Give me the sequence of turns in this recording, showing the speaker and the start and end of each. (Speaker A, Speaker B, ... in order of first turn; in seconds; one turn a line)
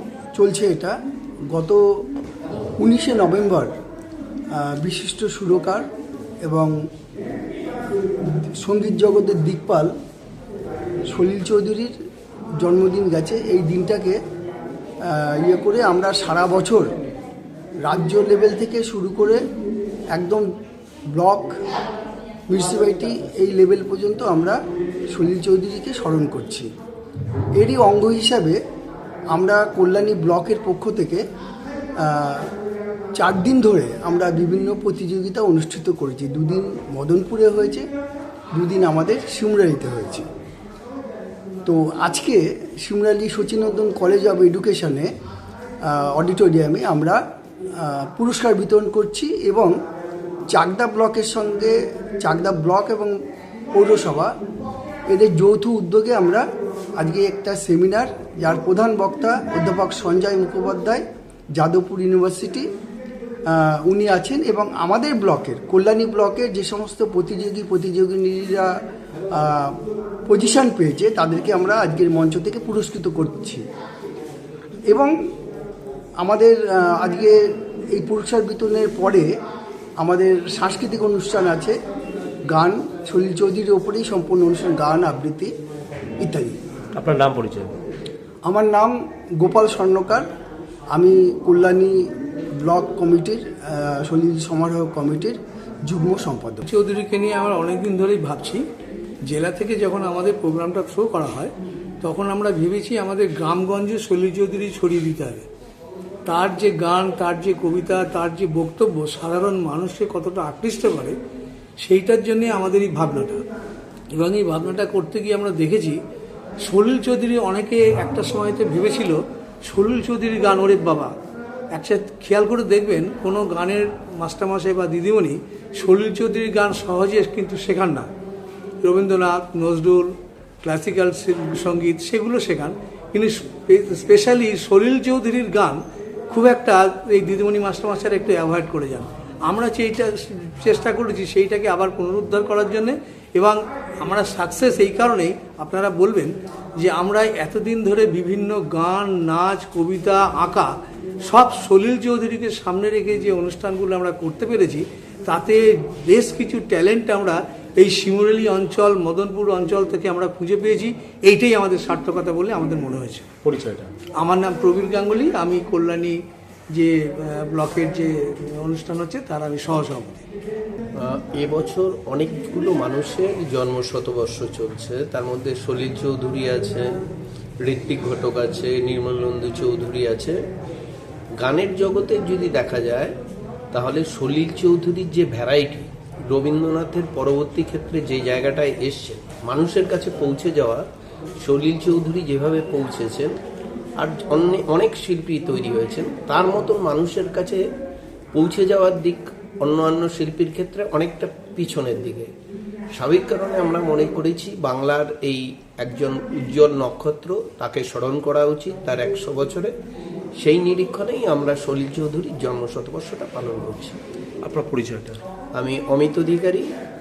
Speaker A: 0.4-0.9
Speaker A: 1.5-1.8
Speaker A: 2.8-3.7
Speaker A: 4.5-5.8
Speaker A: 6.5-6.7
Speaker A: 8.5-9.9
Speaker A: 11.1-11.9
Speaker A: 12.6-14.2
Speaker A: 15.1-16.9
Speaker A: 17.9-19.4
Speaker A: 20.1-20.5
Speaker A: 21.1-21.6
Speaker A: 22.5-24.6
Speaker A: 25.1-26.7
Speaker A: 27.6-28.6
Speaker A: 29.3-31.2
Speaker A: 32.0-32.5
Speaker A: 33.1-37.9
Speaker A: 38.5-40.2
Speaker A: 41.7-45.1
Speaker A: 45.9-47.2
Speaker A: 47.8-49.8
Speaker A: 50.5-53.2
Speaker A: 53.8-54.3
Speaker A: 55.1-56.5
Speaker A: 57.0-61.0
Speaker A: 61.5-62.7
Speaker A: 63.5-68.7
Speaker A: 69.3-69.8
Speaker A: 70.3-73.6
Speaker A: 74.9-75.1
Speaker A: 76.2-77.4
Speaker A: 78.0-79.3
Speaker A: 80.0-81.8
Speaker A: 82.5-85.5
Speaker A: 86.2-86.6
Speaker B: 87.0-87.8
Speaker A: 88.5-90.3
Speaker A: 90.9-92.0
Speaker A: 92.6-96.7
Speaker C: 96.7-98.7
Speaker C: 99.3-105.5
Speaker C: 106.3-111.2
Speaker C: 111.8-113.4
Speaker C: 114.2-116.0
Speaker C: 116.6-121.1
Speaker C: 121.7-128.1
Speaker C: 128.8-163.3
Speaker B: 163.4-163.9
Speaker C: 164.2-166.2
Speaker C: 166.8-170.3
Speaker D: 171.0-177.0
Speaker D: 177.6-180.4
Speaker D: 181.4-183.1
Speaker D: 183.7-190.8
Speaker D: 191.4-193.3
Speaker D: 194.0-197.6
Speaker D: 198.3-202.3
Speaker D: 203.0-209.7
Speaker D: 210.4-214.0
Speaker B: 214.4-215.2
Speaker D: 215.6-216.7